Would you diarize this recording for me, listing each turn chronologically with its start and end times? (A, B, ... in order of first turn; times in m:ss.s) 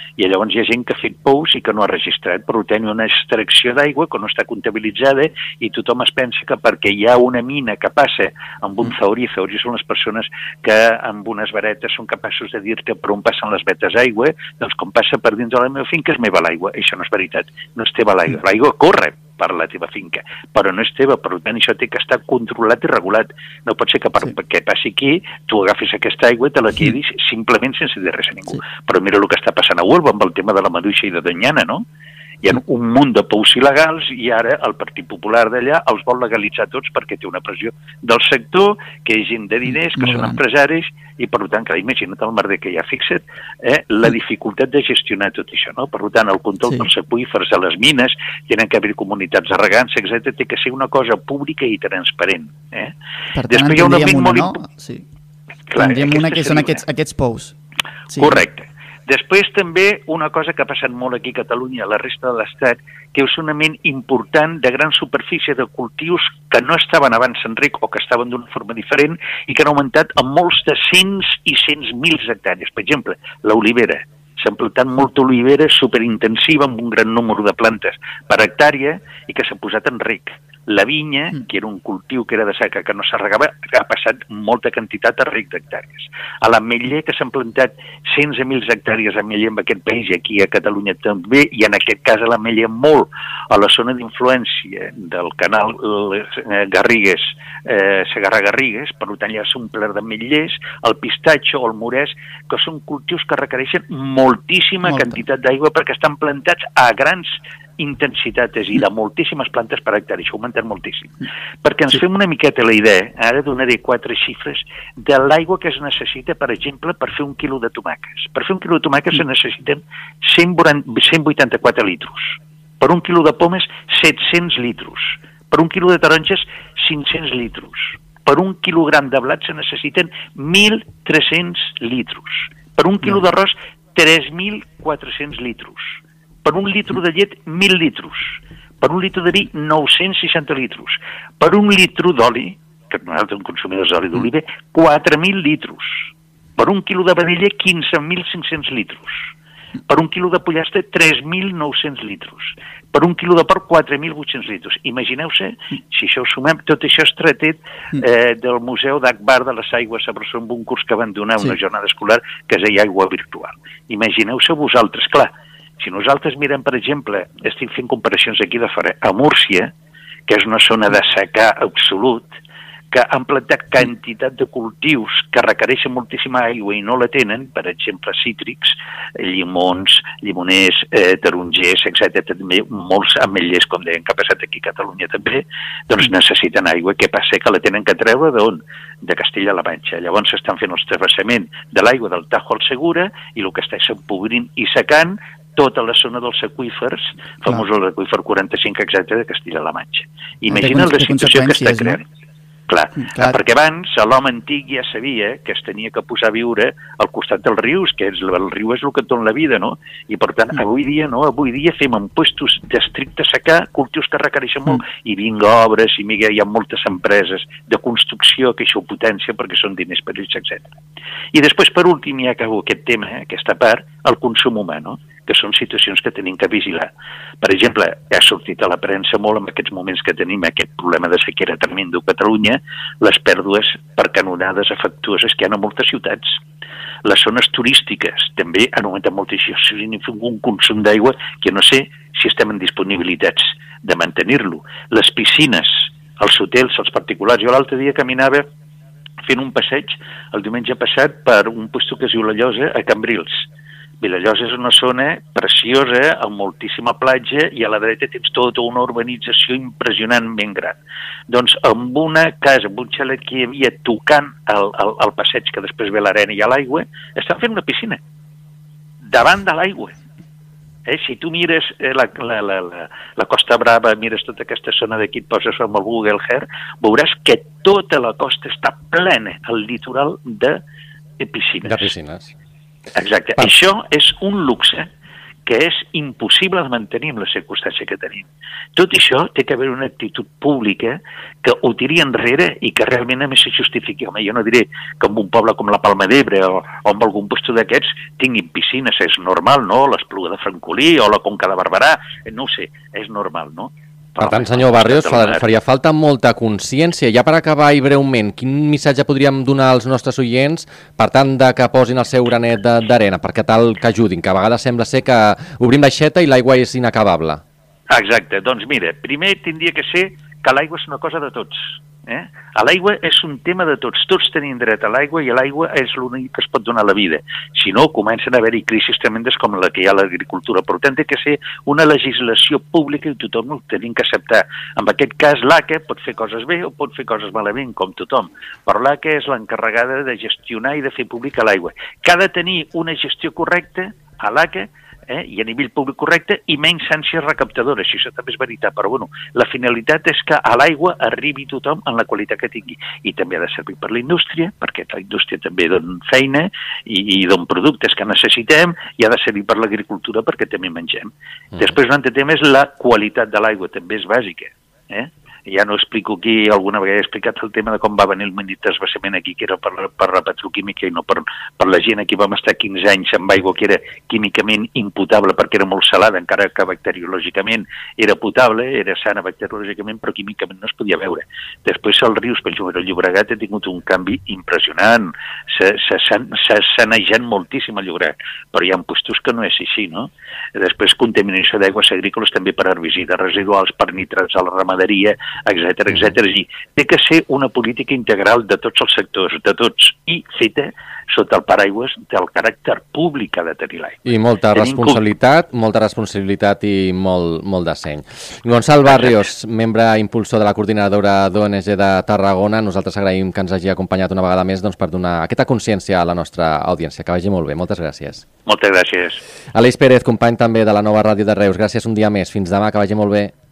0:00.2-0:31.8 A
0:32.4-0:52.9 A
0:53.3-0:55.0 B
0:53.5-0:54.6 A
0:55.7-0:56.8 A
0:55.8-0:57.5 B
0:58.1-0:58.4 B
0:58.2-2:26.1 A
2:26.6-2:29.2 A
2:29.9-2:49.7 A
2:50.3-2:52.3 A
2:52.9-3:22.0 A
3:20.5-3:22.0 B
3:22.7-3:40.7 A
3:23.0-3:23.4 B
3:41.3-3:46.9 A
3:47.4-3:56.4 A
3:57.0-4:08.5 A
4:09.2-4:13.4 A
4:14.0-4:20.8 A
4:21.3-4:28.0 A
4:29.1-4:30.0 A
4:30.8-4:40.6 A
4:41.2-4:41.9 A
4:41.6-4:42.3 C
4:43.0-4:44.9 A
4:45.4-5:05.4 A
5:04.2-5:17.4 C
5:17.9-6:45.0 A
6:44.1-6:58.2 C
6:58.4-6:59.2 A
6:59.5-7:03.3 C